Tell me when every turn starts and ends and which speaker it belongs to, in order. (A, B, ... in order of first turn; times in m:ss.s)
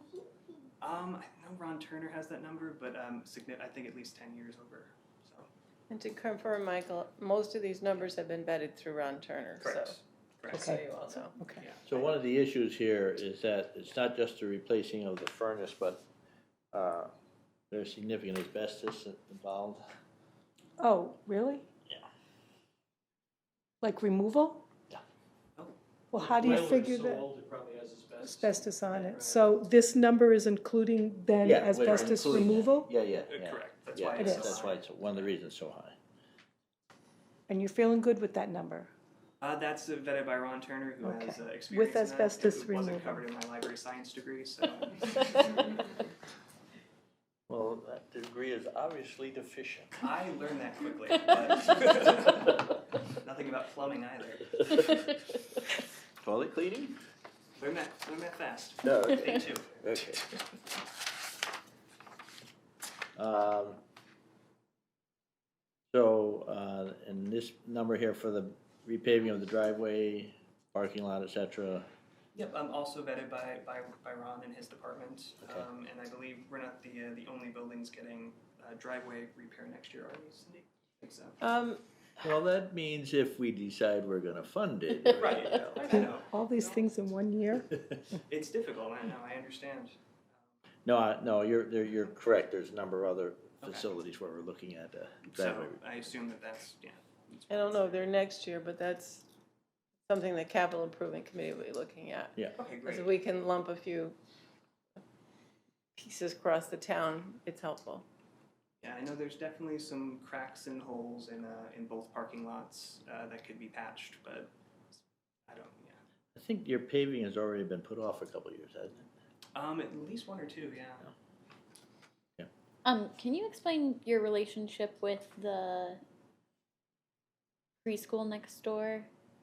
0:00.8-0:05.5 A
0:05.9-0:10.0 B
0:09.6-0:10.8 A
0:10.5-0:11.4 B
0:10.5-0:11.6 C
0:11.8-0:16.0 D
0:16.7-0:17.1 D
0:17.7-0:19.8 D
0:20.8-0:21.6 C
0:23.8-0:24.6 C
0:26.1-0:27.3 C
0:26.2-0:29.2 E
0:28.2-0:32.9 C
0:28.9-0:29.5 A
0:31.4-0:36.0 D
0:31.9-0:32.5 A
0:33.3-0:35.3 A
0:34.2-0:34.5 C
0:37.5-0:38.9 C
0:39.4-0:45.7 A
0:41.0-0:43.2 C
0:47.5-0:50.0 D
0:50.0-0:54.8 A
0:56.2-0:57.0 D
0:57.6-1:00.2 A
0:58.8-1:00.2 D
1:03.2-1:03.8 D
1:05.9-1:11.9 D
1:12.4-1:21.4 A
1:21.4-1:21.8 B
1:22.2-1:25.8 D
1:25.1-1:26.8 A
1:25.8-1:27.7 C
1:28.3-1:30.0 A
1:30.8-1:35.8 D
1:33.6-1:33.9 A
1:35.3-1:38.1 A
1:37.5-1:39.2 B
1:40.1-1:44.2 B
1:42.6-1:43.1 A
1:46.0-1:48.0 B
1:48.8-1:54.5 A
1:55.5-1:56.0 A
1:56.4-1:59.1 D
1:59.6-2:01.1 A
2:02.8-2:06.0 F
2:07.8-2:09.1 F